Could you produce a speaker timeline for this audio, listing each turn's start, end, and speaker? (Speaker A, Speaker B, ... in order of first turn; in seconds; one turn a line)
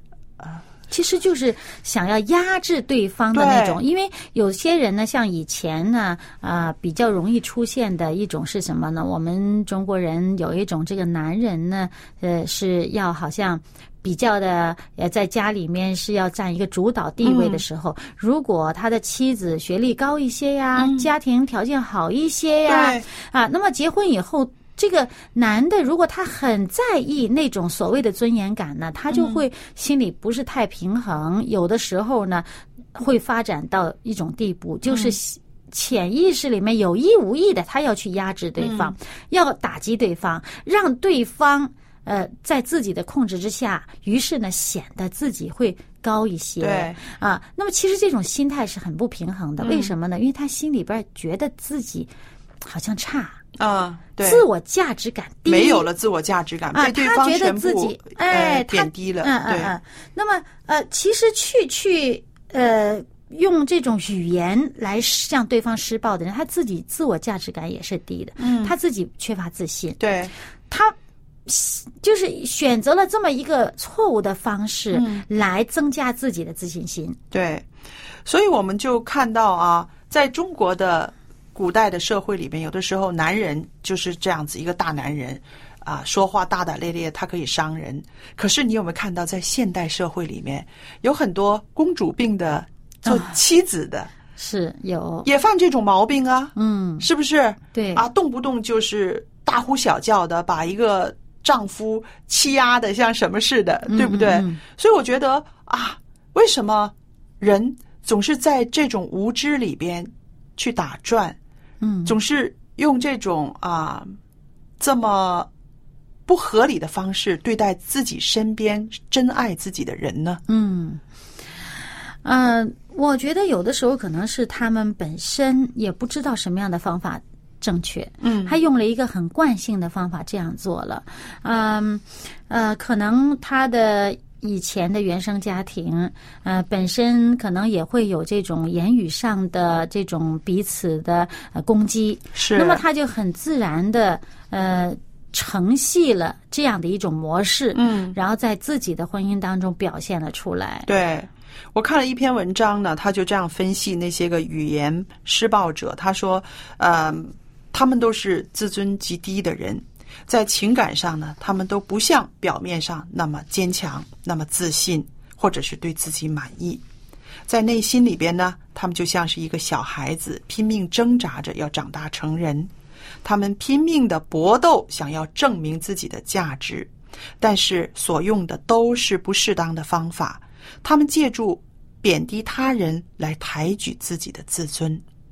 Speaker A: 0.4-0.6
Speaker B: 0.9-52.1
Speaker A: 3.3-3.8
Speaker A: 17.2-17.6
Speaker A: 20.8-21.1
Speaker A: 22.7-23.1
Speaker A: 29.1-29.4
Speaker A: 34.9-35.2
Speaker A: 38.6-38.9
Speaker A: 46.6-47.0
Speaker A: 49.6-49.9
Speaker B: 52.6-53.4
Speaker A: 53.6-54.5
Speaker B: 54.2-55.9
Speaker A: 55.5-59.7
Speaker B: 56.7-70.0
Speaker A: 68.4-68.7
Speaker A: 70.0-70.3
Speaker B: 70.7-70.9
Speaker B: 71.5-77.2
Speaker A: 74.9-75.2
Speaker A: 77.3-77.7
Speaker A: 78.2-94.1
Speaker B: 93.0-93.4
Speaker B: 94.4-95.3
Speaker A: 95.2-111.4
Speaker B: 96.5-97.1
Speaker B: 97.7-98.0
Speaker B: 103.9-104.6
Speaker B: 111.8-112.1
Speaker A: 112.0-114.2
Speaker A: 114.8-115.5
Speaker A: 116.3-120.4
Speaker B: 120.5-121.0
Speaker B: 122.2-150.9
Speaker A: 128.2-128.6
Speaker A: 142.3-142.8
Speaker A: 147.7-148.2
Speaker A: 150.8-166.8
Speaker A: 167.5-172.7
Speaker A: 173.2-185.0